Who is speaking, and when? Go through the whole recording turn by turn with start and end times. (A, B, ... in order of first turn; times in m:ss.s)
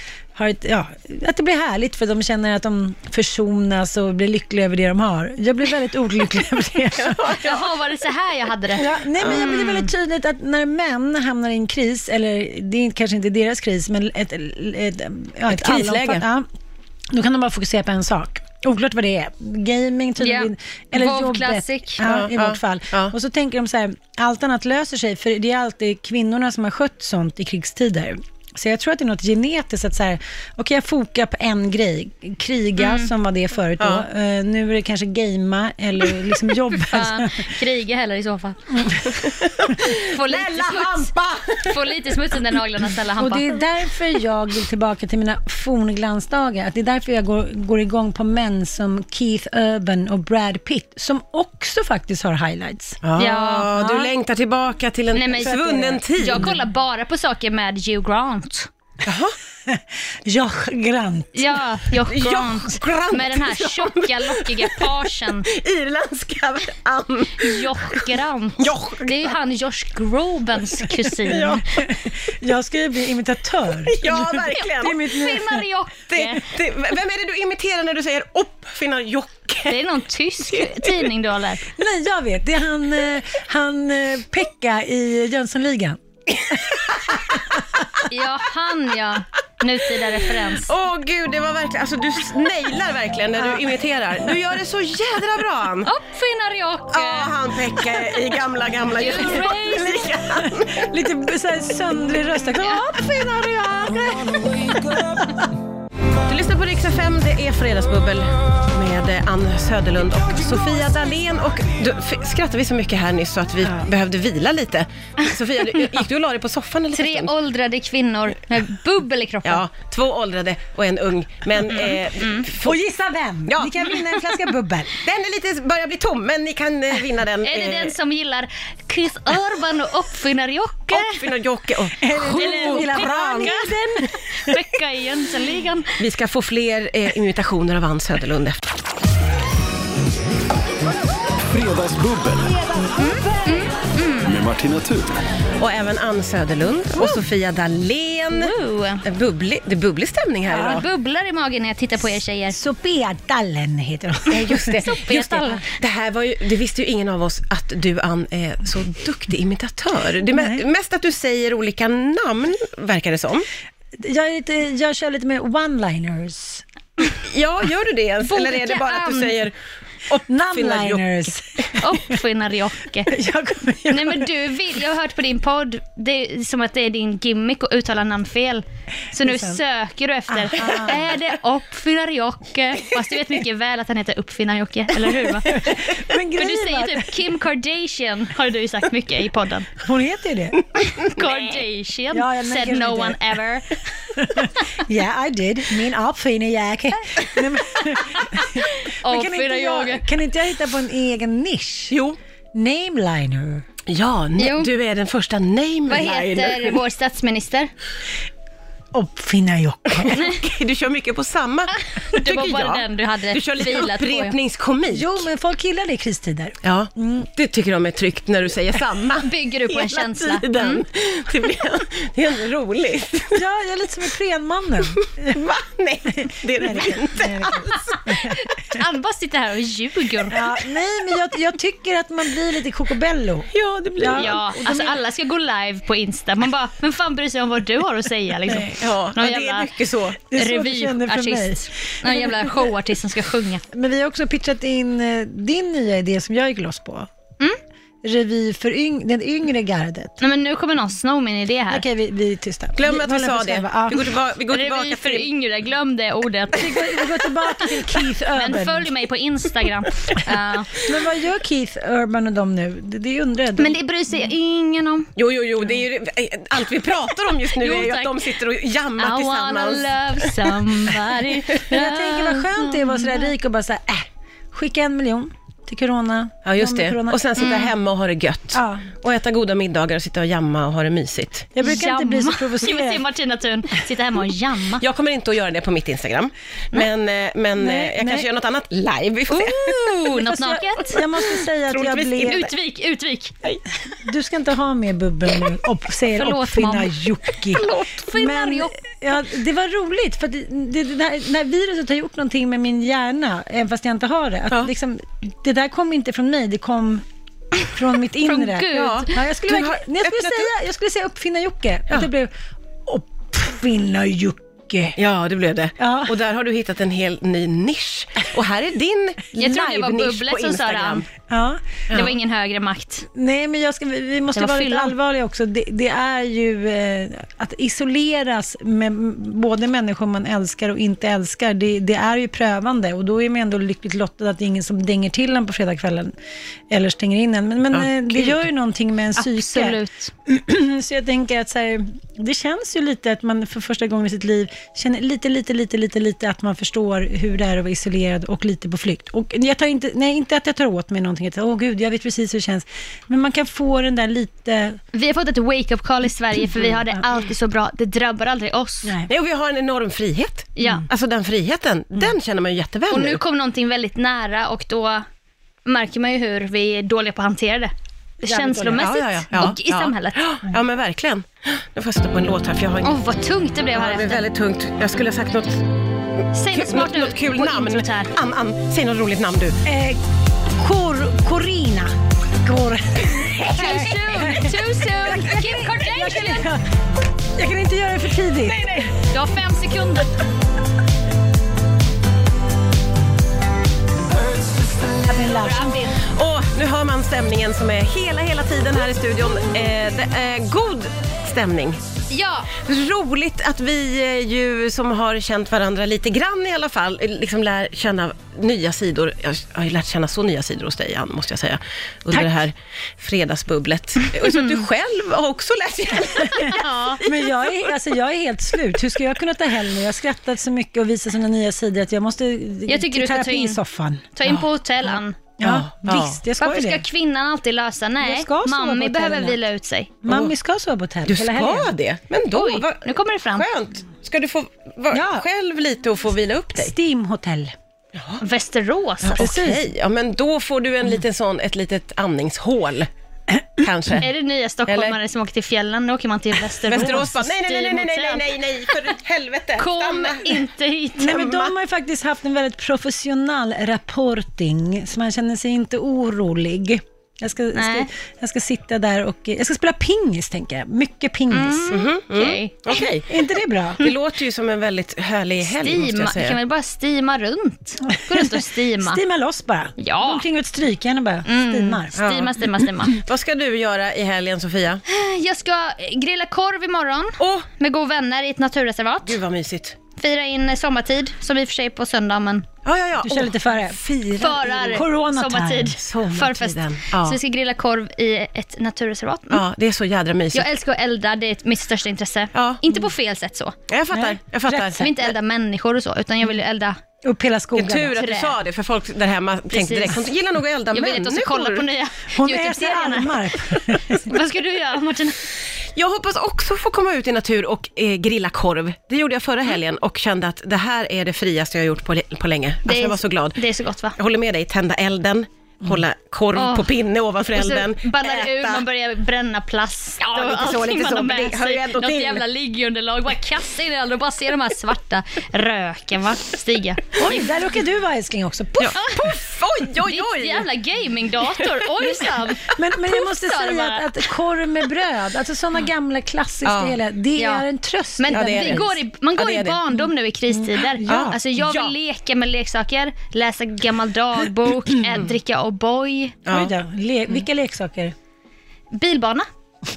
0:00.3-0:07.3 A
0:07.0-0:07.7 B
0:07.3-0:09.9 C
0:08.7-0:16.5 A
0:15.5-0:16.2 B
0:17.1-0:37.5 A
0:20.2-0:22.0 C
0:22.0-0:23.1 B
0:32.8-0:33.1 C
0:36.7-0:39.0 C
0:38.7-0:39.3 A
0:39.4-0:42.1 B
0:39.8-0:43.5 C
0:43.2-0:53.0 A
0:53.0-0:56.5 B
0:53.2-0:54.0 C
0:55.1-0:58.7 C
0:55.4-0:56.5 A
0:59.0-0:59.3 B
0:59.7-1:01.6 A
1:01.3-1:05.5 C
1:02.1-1:08.1 B
1:07.4-1:11.6 C
1:08.6-1:09.3 B
1:11.2-1:11.6 B
1:11.3-1:15.6 A
1:13.8-1:15.0 B
1:14.5-1:16.5 C
1:16.1-1:19.8 B
1:19.7-1:21.6 C
1:20.4-1:21.1 B
1:21.7-1:27.8 A
1:28.1-1:30.7 C
1:30.6-1:35.9 B
1:33.4-1:33.6 A
1:35.8-1:37.3 C
1:36.9-1:40.9 B
1:38.9-1:40.1 C
1:40.4-1:45.5 A
1:46.3-1:57.3 B
1:56.9-1:59.6 C
1:59.4-2:02.8 B
2:02.2-2:02.5 C
2:02.6-2:05.0 A
2:03.5-2:04.4 B
2:05.0-2:07.9 B
2:07.4-2:11.3 C
2:10.9-2:13.7 B
2:12.0-2:14.5 A
2:12.3-2:16.0 C
2:16.0-2:18.6 B
2:21.5-2:22.6 D
2:23.0-2:24.4 C
2:24.2-2:25.1 D
2:25.6-2:30.8 B
2:28.4-2:29.0 C
2:30.5-2:32.6 C
2:30.5-2:30.8 A
2:32.5-2:35.6 A
2:34.3-2:43.4 B
2:34.8-2:35.6 C
2:40.3-2:40.6 A
2:44.0-2:46.6 A
2:47.2-2:49.5 B
2:48.2-2:49.3 C
2:50.1-2:51.8 B
2:50.3-2:51.9 A
2:51.8-2:53.1 C
2:53.1-2:54.3 A
2:53.9-3:05.8 C
2:59.2-2:59.6 A
3:00.3-3:01.0 A
3:05.4-3:07.2 A
3:06.4-3:09.7 C
3:09.8-3:10.6 A
3:11.0-3:13.8 C
3:12.1-3:13.3 A
3:14.2-3:22.0 A
3:18.3-3:20.0 C
3:21.9-3:22.2 B
3:22.5-3:23.6 A
3:23.9-3:26.8 B
3:24.4-3:24.7 C
3:25.9-3:27.7 C
3:28.9-3:30.2 A
3:30.0-3:35.2 B
3:30.1-3:30.4 C
3:31.8-3:34.3 C
3:34.9-3:37.3 A
3:36.6-3:43.4 B
3:39.2-3:40.8 C
3:43.3-3:45.4 A
3:45.0-3:47.8 B
3:46.2-3:48.4 A
3:47.7-3:50.5 C
3:50.3-3:54.4 A
3:53.5-3:54.9 B
3:54.2-3:59.7 C
3:58.5-4:00.2 B
4:00.3-4:02.6 A
4:00.3-4:03.6 C
4:03.7-4:07.1 A
4:08.0-4:10.2 A
4:10.2-4:11.8 C
4:11.7-4:14.1 A
4:12.8-4:15.3 B
4:14.5-4:17.1 C
4:16.5-4:18.9 A
4:18.3-4:20.7 C
4:20.7-4:23.8 A
4:23.6-4:25.1 C
4:25.2-4:30.6 B
4:27.5-4:28.2 C
4:29.0-4:33.3 C
4:31.6-4:37.4 A
4:36.4-4:41.5 B
4:37.4-4:37.7 C
4:38.5-4:38.9 A
4:41.5-4:43.0 A
4:41.6-4:44.8 C
4:44.8-4:49.8 B
4:47.6-4:48.3 A
4:49.3-4:51.0 C
4:50.1-4:52.5 A
4:51.7-4:52.5 B
4:52.2-4:53.3 C
4:54.0-5:07.0 A
4:56.1-4:56.9 C
4:57.5-4:58.7 C
5:07.6-5:12.3 A
5:08.2-5:09.2 C
5:08.7-5:10.5 B
5:12.8-5:15.0 A
5:15.0-5:21.0 B
5:15.8-5:16.1 A
5:19.3-5:21.0 C
5:21.3-5:21.6 A
5:21.9-5:23.1 C
5:23.1-5:36.1 A
5:24.3-5:24.9 C
5:36.7-5:54.8 A
5:37.7-5:38.4 B
5:39.2-5:40.1 C
5:54.9-5:58.9 C
5:58.8-5:59.1 A
5:59.1-6:03.2 B
6:00.6-6:00.8 C
6:02.9-6:05.0 C
6:05.6-6:10.2 C
6:08.2-6:08.9 A
6:08.8-6:13.0 B
6:12.8-6:14.2 C
6:13.7-6:15.7 B
6:16.3-6:18.1 C
6:16.5-6:19.6 B
6:19.6-6:20.0 A
6:20.5-6:26.6 A
6:23.5-6:26.5 C
6:27.4-6:28.9 A
6:28.4-6:28.9 B
6:29.1-6:30.1 C
6:34.9-6:35.9 A
6:35.4-6:36.0 C
6:36.0-6:41.8 B
6:42.1-6:42.5 C
6:42.6-6:57.3 B
6:56.4-6:57.0 C
6:57.0-7:04.1 A
7:02.7-7:03.6 C
7:04.1-7:05.2 C
7:05.4-7:06.8 A
7:05.4-7:06.2 B
7:06.4-7:10.0 C
7:08.0-7:09.4 A
7:10.0-7:11.7 A
7:11.1-7:16.7 B
7:12.3-7:13.4 C
7:14.9-7:15.2 A
7:16.5-7:17.5 A
7:17.9-7:18.2 B
7:18.2-7:19.3 C
7:19.1-7:22.9 B
7:19.1-7:19.7 A
7:23.6-7:24.1 B
7:24.0-7:28.8 C
7:24.7-7:25.0 B
7:26.6-7:30.5 B
7:29.6-7:31.3 C
7:31.0-7:41.7 A
7:31.1-7:31.5 B
7:37.5-7:37.9 C
7:41.3-7:42.8 C
7:41.7-7:43.1 B
7:43.1-7:43.8 A
7:43.8-7:46.4 B
7:45.4-7:49.0 C
7:48.1-7:51.9 A
7:49.8-7:50.2 C
7:51.2-7:53.0 C
7:51.9-7:52.3 B
7:52.9-7:54.8 B
7:54.9-7:59.2 C
7:57.2-7:57.4 B
7:59.0-7:59.8 B
8:00.0-8:02.4 C
8:02.6-8:04.8 B
8:03.0-8:06.2 A
8:04.2-8:09.4 C
8:05.9-8:07.2 B
8:09.3-8:10.5 B
8:10.3-8:13.6 C
8:12.3-8:12.6 B
8:13.7-8:15.0 B
8:13.9-8:14.9 A
8:14.8-8:16.8 C
8:17.0-8:18.0 A
8:17.5-8:21.7 B
8:17.9-8:18.4 C
8:19.5-8:20.0 C
8:20.7-8:25.2 C
8:22.1-8:24.1 A
8:25.7-8:33.4 B
8:32.6-8:34.0 C
8:34.0-8:38.6 B
8:36.3-8:36.7 C
8:37.3-8:47.2 C
8:40.0-8:42.2 B
8:47.0-8:48.8 A
8:48.6-8:50.4 B
8:48.7-8:49.2 C
8:49.8-8:53.9 C
8:52.4-8:58.6 A
8:56.4-8:56.8 B
8:57.2-8:57.4 C
8:58.0-9:06.2 C
8:58.1-8:59.6 B
9:00.3-9:01.2 A
9:00.8-9:01.7 B
9:06.2-9:06.5 B
9:06.3-9:07.9 A
9:08.7-9:09.3 C